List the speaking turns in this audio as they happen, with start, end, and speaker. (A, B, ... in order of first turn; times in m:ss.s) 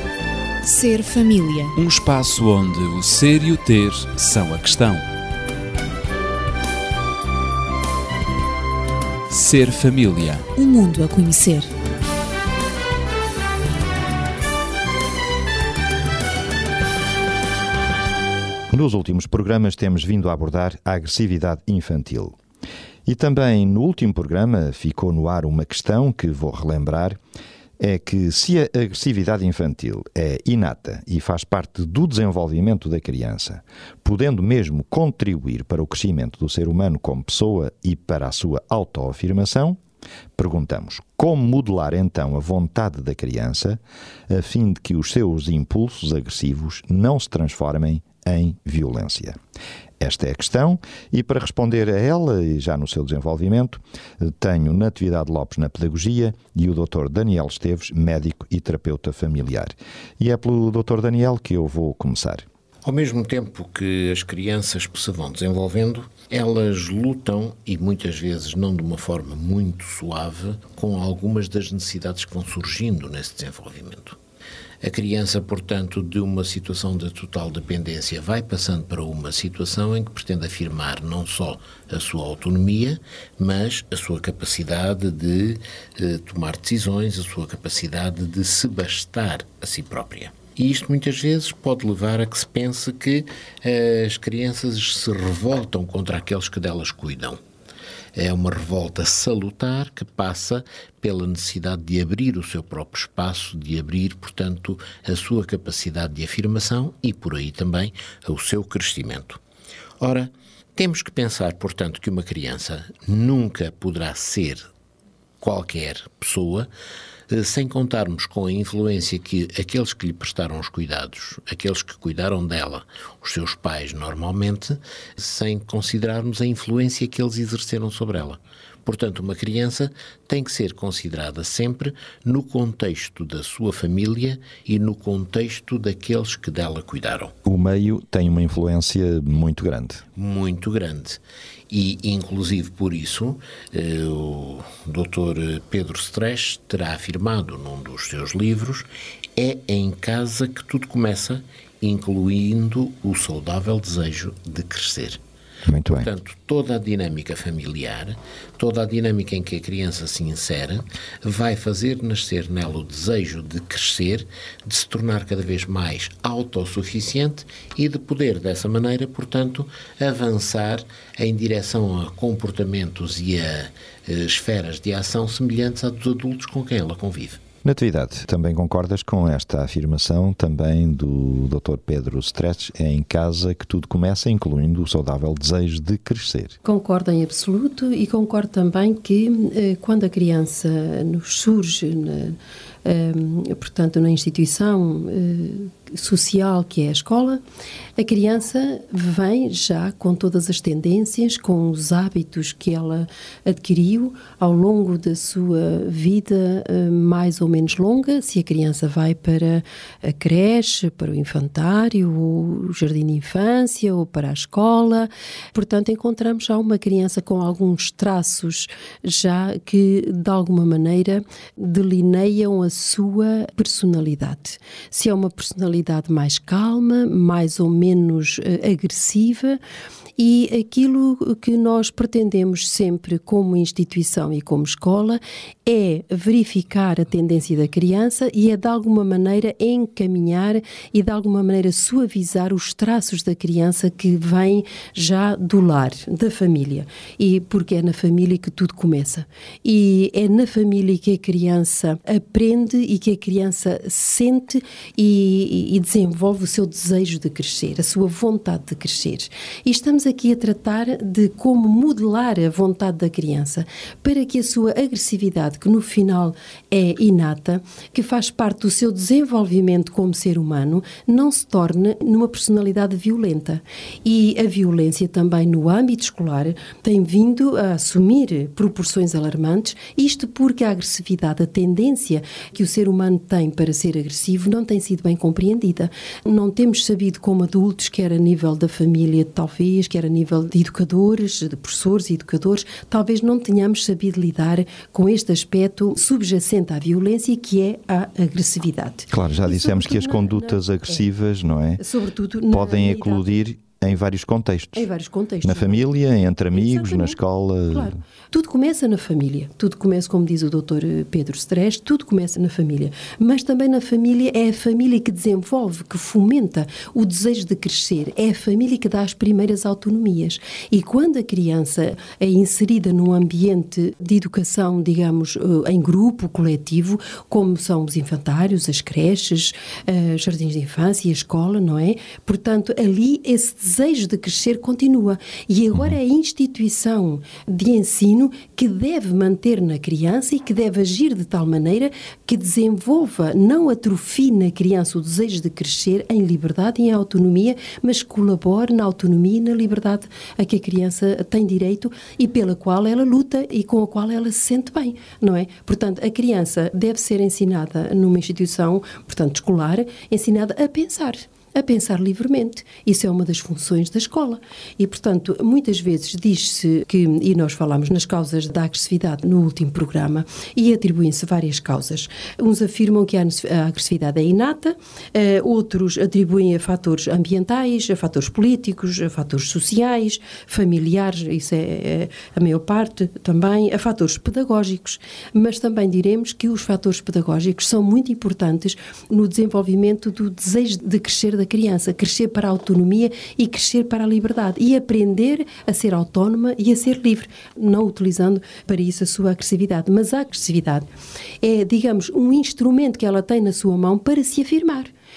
0:00.6-0:01.8 A
0:01.8-0:05.1 B
0:09.3-0:10.5 B
0:10.6-0:11.7 A
0:18.7-0:22.4 C
0:23.0-0:27.2 C
0:27.8-0:39.8 C
0:40.4-0:49.4 C
0:50.0-1:02.4 C
1:02.8-1:14.2 D
1:14.8-1:37.4 D
1:38.1-1:49.4 D
1:50.0-1:54.6 D
1:55.4-1:56.7 D
1:57.3-2:17.3 D
2:17.4-2:20.0 C
2:20.2-2:35.2 D
2:35.6-2:36.1 C
2:35.9-2:57.4 D
2:57.6-3:06.6 C
3:06.6-3:17.4 E
3:18.0-3:49.6 E
3:50.2-5:01.0 E
4:59.1-5:01.8 C
5:01.8-5:03.3 E
5:02.5-5:04.9 C
5:04.7-5:05.9 E
5:05.4-5:07.9 C
5:06.5-5:07.2 E
5:07.7-6:40.9 E
6:41.4-6:44.9 E